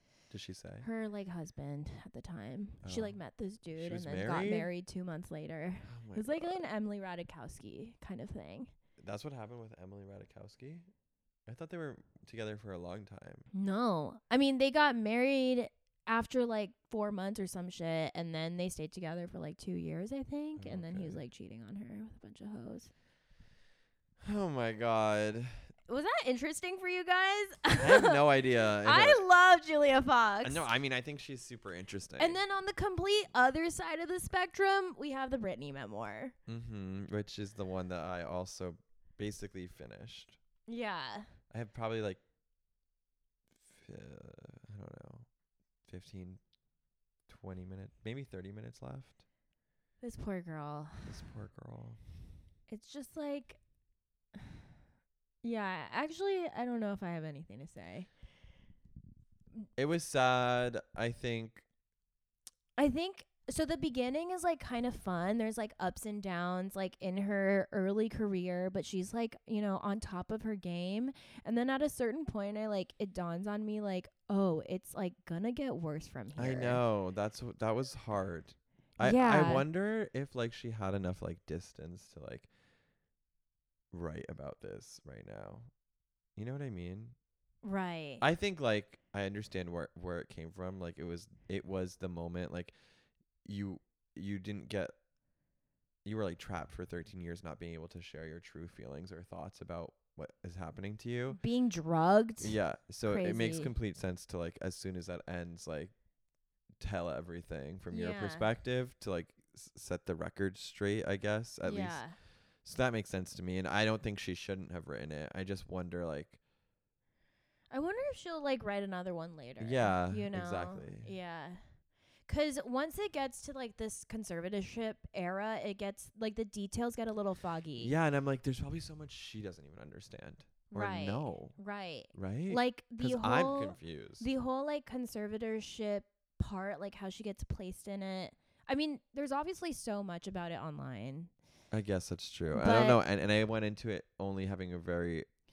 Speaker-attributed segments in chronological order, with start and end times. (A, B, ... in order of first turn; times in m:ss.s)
0:00.3-0:00.9 A
0:00.8-0:08.7 B
0:02.8-0:03.2 A
0:03.8-0:04.7 A
0:05.8-0:06.6 A
0:09.0-0:10.9 A
0:11.5-0:13.5 A
0:13.5-0:22.9 B
0:20.6-0:21.2 A
0:24.2-0:25.5 A
0:25.9-0:28.2 B
0:27.8-0:29.2 A
0:28.8-0:30.7 B
0:30.4-0:32.4 A
0:32.2-0:36.3 B
0:36.5-0:40.4 A
0:40.7-0:41.3 B
0:41.5-0:42.2 A
0:43.7-0:45.3 A
0:45.9-0:46.4 A
0:47.3-0:49.2 A
0:50.0-0:51.1 B
0:51.0-0:52.0 A
0:52.7-0:53.6 B
0:55.4-0:58.1 B
0:59.8-1:01.6 A
1:02.8-1:16.8 B
1:16.4-1:22.5 A
1:19.0-1:19.6 B
1:23.9-1:25.7 A
1:26.4-1:27.2 A
1:27.6-1:28.2 B
1:28.2-1:32.7 A
1:33.4-1:34.9 A
1:36.0-1:41.4 A
1:41.3-1:43.7 B
1:42.4-1:45.9 A
1:46.8-1:52.0 A
1:47.9-1:48.5 B
1:51.6-1:52.2 B
1:52.6-1:56.4 A
1:57.7-2:01.6 B
1:59.6-2:01.1 A
2:02.3-2:07.9 B
2:07.8-2:11.6 A
2:10.7-2:21.3 B
2:12.1-2:14.2 A
2:21.7-2:25.3 A
2:22.5-2:23.0 B